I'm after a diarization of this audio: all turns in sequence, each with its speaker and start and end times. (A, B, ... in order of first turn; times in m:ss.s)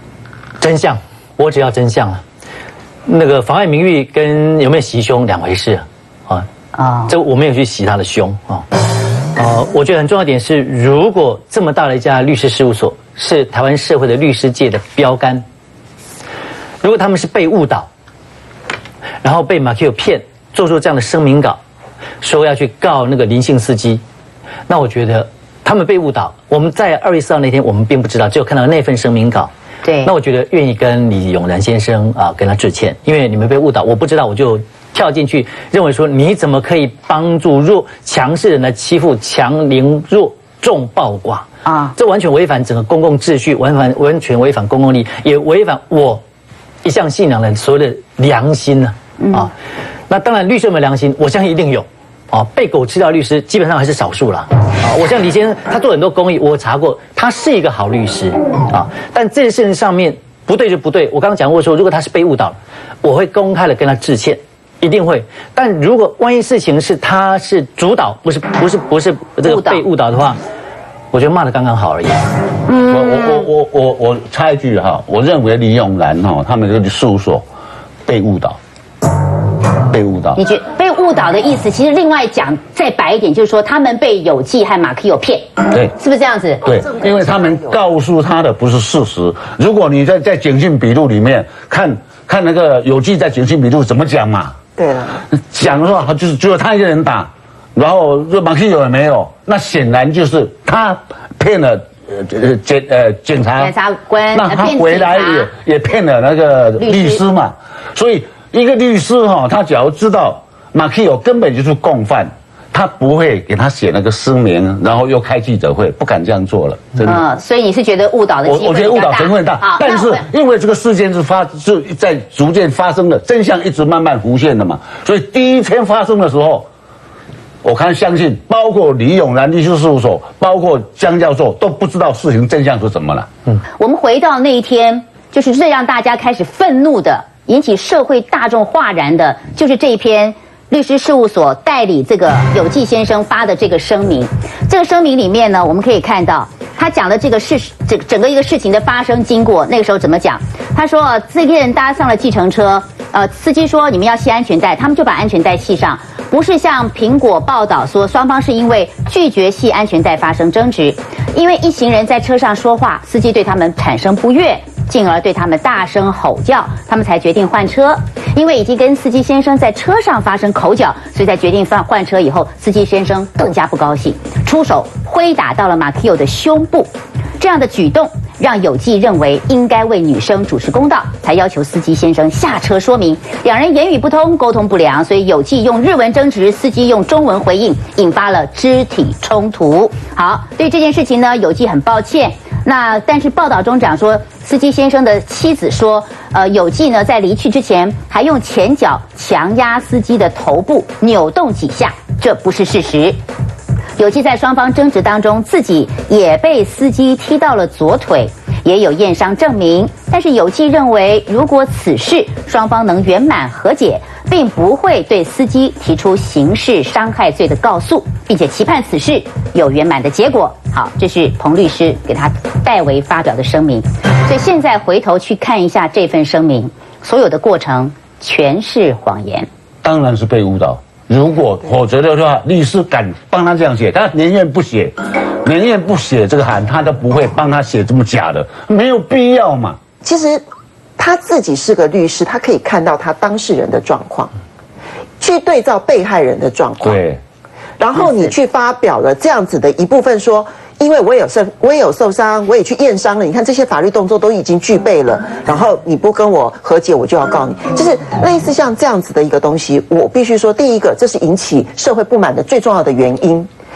0:00.6-0:02.2 A
0:03.1-0:06.5 A
0:06.8-0:07.1 B
0:07.1-0:08.7 A
0:09.4-0:15.4 A
0:16.8-0:17.9 A
0:19.2-0:21.6 A
0:22.2-0:24.0 A
0:24.7-0:29.5 A
0:29.8-0:30.1 B
0:30.0-0:46.2 A
0:41.6-0:42.0 B
0:46.8-0:49.5 A
0:49.2-0:49.5 B
0:50.1-1:10.4 A
1:09.4-1:09.8 B
1:11.1-1:12.2 A
1:12.7-1:13.5 B
1:12.8-1:17.4 C
1:18.1-1:18.6 C
1:19.9-1:20.4 C
1:20.4-1:25.4 B
1:26.0-1:26.6 B
1:26.6-1:34.6 C
1:26.7-1:27.8 D
1:34.8-1:35.2 D
1:35.4-1:43.7 C
1:43.6-1:45.5 B
1:44.3-1:57.2 C
1:46.8-1:47.2 B
1:57.0-2:00.2 B
1:58.4-2:06.7 C
2:07.6-2:13.3 C
2:13.8-3:23.2 B
3:24.0-3:49.5 B
3:49.8-3:54.9 C
3:55.4-3:59.8 C
4:00.0-4:00.4 D
4:01.0-4:04.3 D
4:05.2-4:07.0 D
4:06.8-4:07.2 C
4:07.8-4:23.5 D
4:08.0-4:08.3 B